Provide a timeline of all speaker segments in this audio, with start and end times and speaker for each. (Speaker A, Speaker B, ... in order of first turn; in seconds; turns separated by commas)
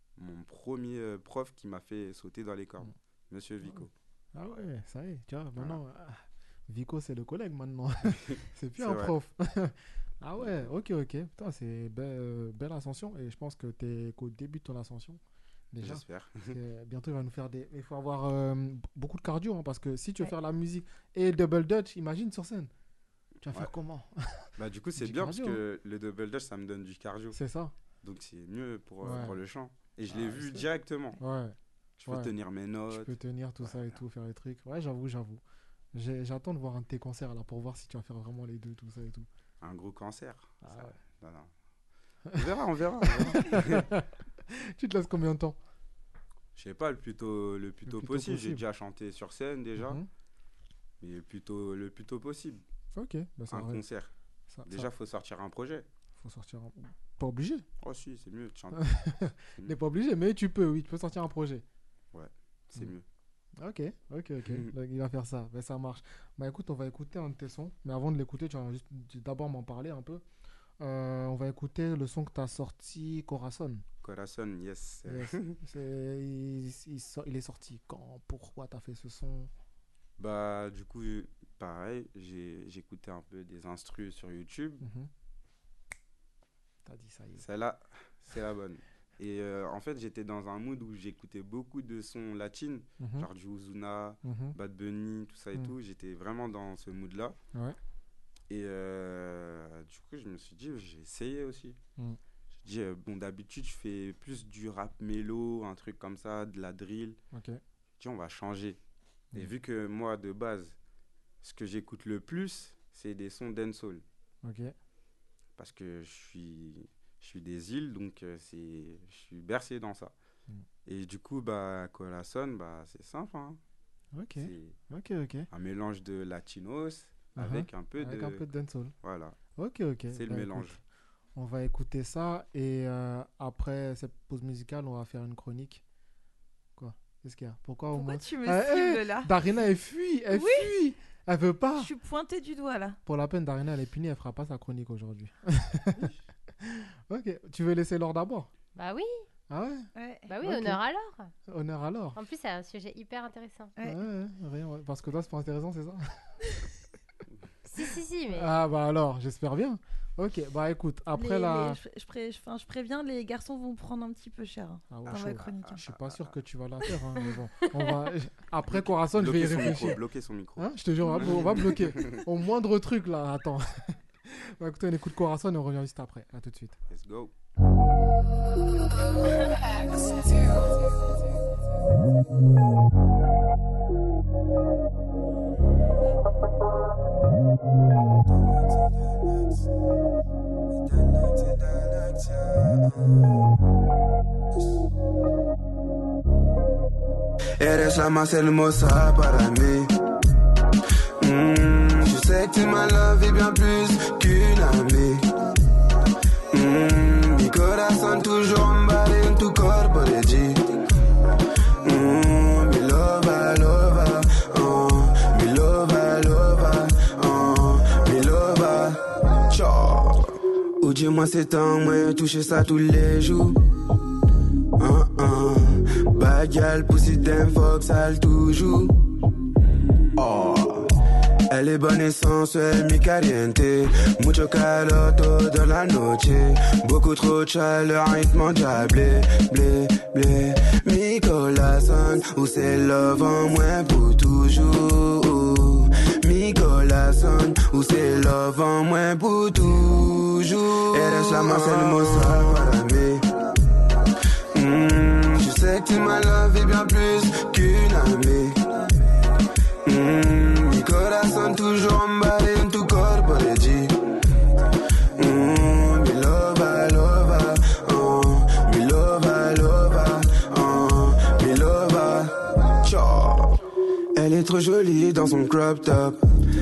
Speaker A: 0.2-3.9, Speaker B: 3.6-22.7, Speaker A: 8.1-9.1, Speaker A: 10.4-10.7, Speaker A: 15.8-16.6, Speaker B: 23.4-25.6, Speaker A: 24.6-27.4, Speaker B: 27.3-27.7, Speaker A: 28.0-31.2, Speaker B: 29.0-29.4, Speaker B: 30.1-30.7, Speaker B: 31.2-32.3, Speaker A: 32.0-33.9, Speaker B: 32.9-35.4, Speaker B: 35.9-39.3, Speaker A: 39.6-41.5, Speaker B: 40.6-40.9, Speaker A: 42.3-43.9, Speaker B: 43.0-45.6, Speaker A: 46.5-50.0, Speaker B: 47.9-48.6, Speaker B: 49.8-50.0, Speaker A: 51.0-52.6, Speaker B: 52.9-53.8, Speaker A: 53.5-54.1, Speaker B: 54.5-54.9, Speaker A: 54.6-55.9, Speaker B: 56.2-57.6, Speaker A: 57.8-58.8, Speaker B: 58.8-61.6, Speaker A: 62.1-63.0, Speaker B: 63.6-70.2, Speaker A: 64.5-64.7, Speaker B: 70.8-73.8, Speaker A: 74.0-75.6, Speaker B: 75.0-79.5, Speaker A: 80.2-84.8, Speaker B: 84.8-85.1, Speaker B: 86.8-87.5, Speaker A: 87.4-97.4, Speaker B: 93.0-93.3, Speaker B: 94.2-94.5, Speaker B: 97.5-97.8, Speaker A: 98.5-101.8, Speaker A: 102.5-107.2, Speaker B: 107.3-107.6, Speaker A: 108.0-108.8, Speaker A: 109.3-110.8, Speaker A: 111.4-114.0, Speaker B: 114.4-114.7, Speaker A: 115.6-120.1, Speaker A: 120.8-123.6, Speaker B: 124.1-125.5, Speaker A: 124.4-124.7, Speaker A: 125.5-128.4, Speaker B: 127.4-128.9, Speaker A: 129.0-129.4, Speaker B: 129.6-130.8, Speaker A: 130.1-130.8, Speaker B: 131.3-135.8, Speaker B: 136.8-141.9, Speaker C: 137.9-139.3, Speaker C: 140.3-140.7, Speaker C: 141.8-143.0, Speaker B: 143.1-148.5, Speaker D: 148.7-149.2, Speaker B: 149.5-149.9, Speaker C: 149.9-150.3, Speaker D: 150.3-151.3, Speaker B: 150.4-150.8, Speaker B: 151.5-152.2, Speaker D: 152.1-153.7, Speaker C: 153.8-154.0, Speaker B: 153.8-156.0, Speaker D: 157.6-158.5, Speaker B: 158.3-161.8, Speaker C: 161.1-165.8, Speaker B: 164.9-170.0, Speaker A: 165.1-166.3, Speaker A: 168.7-172.2, Speaker B: 170.6-176.8, Speaker C: 171.1-171.5, Speaker A: 176.9-177.3, Speaker E: 191.0-192.5, Speaker E: 197.6-199.9, Speaker E: 201.2-205.2, Speaker E: 206.5-210.7, Speaker E: 211.8-223.6, Speaker E: 224.8-228.9, Speaker E: 230.2-230.9, Speaker E: 231.5-253.2, Speaker E: 254.5-258.6, Speaker E: 259.8-263.9, Speaker E: 265.1-273.6, Speaker E: 274.1-276.2